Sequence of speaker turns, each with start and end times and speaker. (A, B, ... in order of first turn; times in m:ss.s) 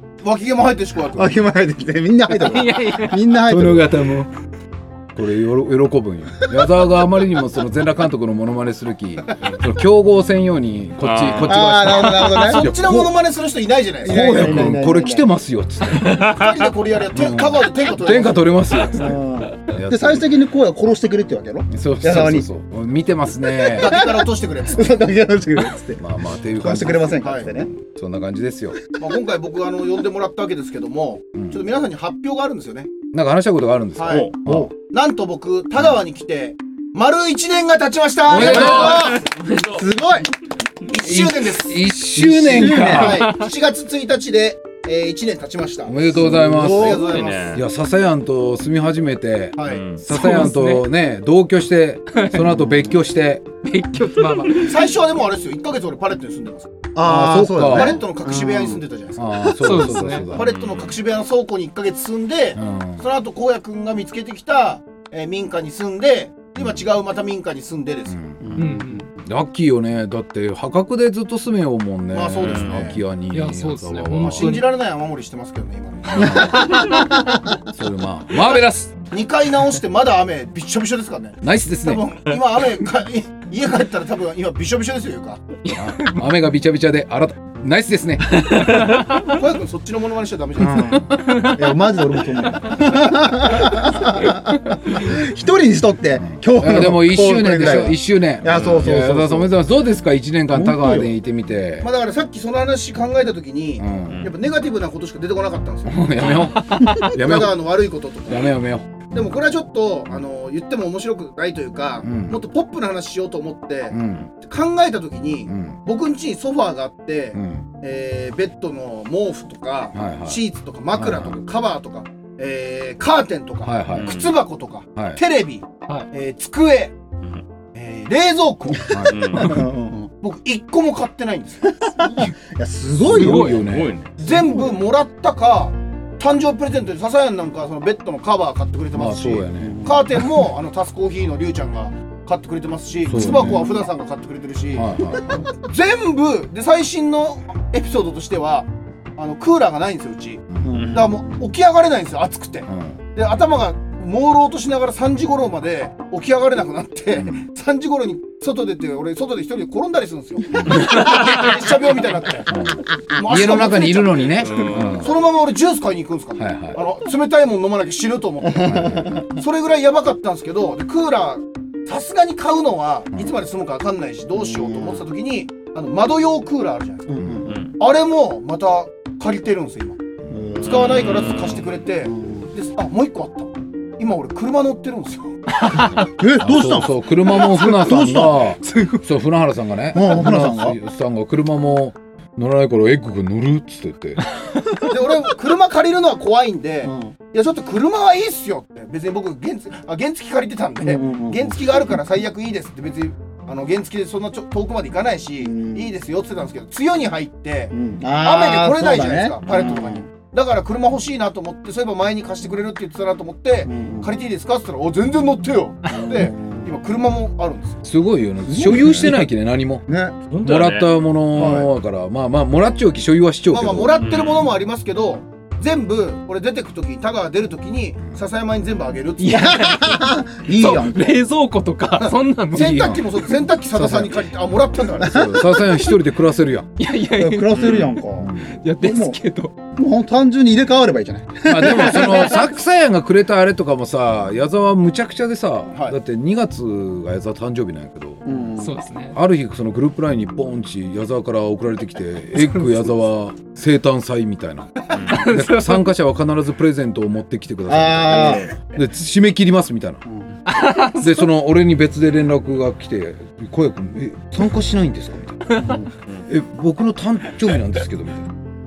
0:00.2-0:01.4 A
0:01.1-0:03.9 B
0:02.3-0:03.4 C
0:03.5-0:04.3 D
0:05.1-0:13.0 D
0:11.0-0:12.0 E
0:11.4-0:13.1 B
0:12.1-0:14.7 A
0:14.0-0:15.2 B
0:14.0-0:16.2 D
0:16.0-0:16.5 E
0:16.0-0:18.8 A
0:17.1-0:20.3 D
0:18.9-0:22.4 B
0:21.7-0:24.0 D
0:23.6-0:27.7 B
0:23.7-0:25.0 A
0:26.0-0:28.8 D
0:27.2-0:27.5 A
0:29.0-0:32.9 A
0:31.4-0:31.6 D
0:33.1-0:34.7 D
0:34.0-0:39.3 A
0:34.1-0:34.3 E
0:38.3-0:39.2 D
0:38.4-0:39.8 E
0:38.4-0:38.8 B
0:39.7-0:40.3 B
0:40.9-0:41.9 A
0:41.0-0:43.4 D
0:42.1-0:43.2 B
0:42.6-0:47.6 A
0:45.8-0:53.5 D
0:46.2-0:47.1 B
0:47.0-0:47.6 E
0:49.6-0:50.0 A
0:49.6-0:50.0 E
0:50.1-0:50.9 C
0:52.1-0:52.5 C
0:52.5-0:52.9 B
0:53.6-0:54.8 C
0:54.6-0:56.8 A
0:56.9-0:58.8 B
0:57.0-0:58.0 D
0:57.6-0:59.7 A
0:59.2-1:00.5 D
0:59.6-1:00.3 C
1:00.2-1:08.2 A
1:00.3-1:01.0 E
1:02.6-1:03.0 D
1:08.1-1:08.7 D
1:08.4-1:09.1 B
1:08.6-1:09.1 C
1:09.2-1:14.6 D
1:12.1-1:13.0 A
1:12.4-1:12.8 E
1:13.3-1:14.7 C
1:14.2-1:17.1 A
1:16.1-1:16.8 D
1:16.9-1:17.4 B
1:17.6-1:18.9 D
1:19.1-1:25.4 A
1:21.4-1:22.1 D
1:25.6-1:26.2 C
1:25.7-1:28.8 D
1:28.4-1:29.2 C
1:29.2-1:31.2 A
1:30.6-1:39.5 B
1:31.2-1:31.8 C
1:36.2-1:41.9 D
1:38.5-1:38.8 E
1:40.5-1:41.1 B
1:41.8-1:48.5 A
1:43.8-1:44.3 D
1:45.9-1:49.1 D
1:49.1-2:06.9 A
1:52.0-1:52.4 D
1:53.9-1:54.3 D
1:55.5-1:55.8 D
1:57.3-1:57.6 D
1:59.9-2:00.4 D
2:00.9-2:01.3 D
2:03.6-2:04.2 D
2:03.9-2:04.3 E
2:05.0-2:05.2 D
2:07.7-2:09.0 A
2:08.9-2:09.4 D
2:09.1-2:09.6 E
2:09.3-2:10.1 B
2:10.2-2:11.8 A
2:11.8-2:13.6 B
2:12.0-2:12.3 C
2:13.0-2:13.9 D
2:13.1-2:13.7 C
2:13.6-2:14.1 E
2:14.2-2:25.0 A
2:14.2-2:14.7 B
2:18.9-2:19.8 D
2:19.6-2:20.1 B
2:23.0-2:23.7 D
2:23.1-2:23.6 B
2:24.7-2:25.5 D
2:25.5-2:57.1 A
2:30.5-2:30.8 D
2:30.6-2:31.5 B
2:30.7-2:31.0 E
2:32.7-2:33.0 D
2:37.1-2:37.4 D
2:40.6-2:41.0 D
2:42.5-2:45.1 D
2:44.4-2:45.1 E
2:46.4-2:46.8 D
2:48.6-2:49.2 D
2:48.6-2:49.2 B
2:54.3-2:55.0 B
2:57.1-2:57.6 B
2:57.2-2:57.6 D
2:57.4-2:57.7 E
2:57.8-3:00.0 A
3:00.3-3:01.2 B
3:00.6-3:01.7 E
3:00.6-3:05.4 A
3:02.0-3:02.5 B
3:05.7-3:06.1 C
3:05.9-3:08.5 B
3:06.4-3:14.2 D
3:08.6-3:09.0 C
3:09.9-3:10.8 B
3:14.4-3:14.8 C
3:14.8-3:37.8 A
3:16.8-3:17.1 B
3:20.8-3:21.8 B
3:25.4-3:25.9 B
3:27.7-3:30.0 B
3:33.6-3:34.1 B
3:35.9-3:36.7 B
3:37.8-3:39.8 D
3:38.4-3:39.3 B
3:39.9-3:40.2 B
3:40.3-3:40.9 E
3:40.4-3:44.0 D
3:41.4-3:41.7 B
3:43.5-3:49.7 A
3:44.0-3:44.5 E
3:49.2-3:52.8 C
3:49.2-3:51.1 B
3:52.0-3:55.5 A
3:52.5-3:53.1 D
3:53.7-3:54.2 D
3:55.0-3:56.7 D
3:56.8-3:59.5 C
3:57.1-3:59.2 B
3:57.5-3:57.9 E
3:58.2-3:58.6 D
3:59.7-4:02.4 B
4:01.4-4:08.4 D
4:08.2-4:08.7 B
4:08.6-4:09.2 C
4:09.1-4:20.0 D
4:14.9-4:15.2 E
4:15.1-4:15.8 C
4:17.7-4:18.5 B
4:20.0-4:20.3 B
4:20.4-4:21.2 C
4:20.8-4:25.6 D
4:25.5-4:25.9 B
4:26.3-4:28.3 D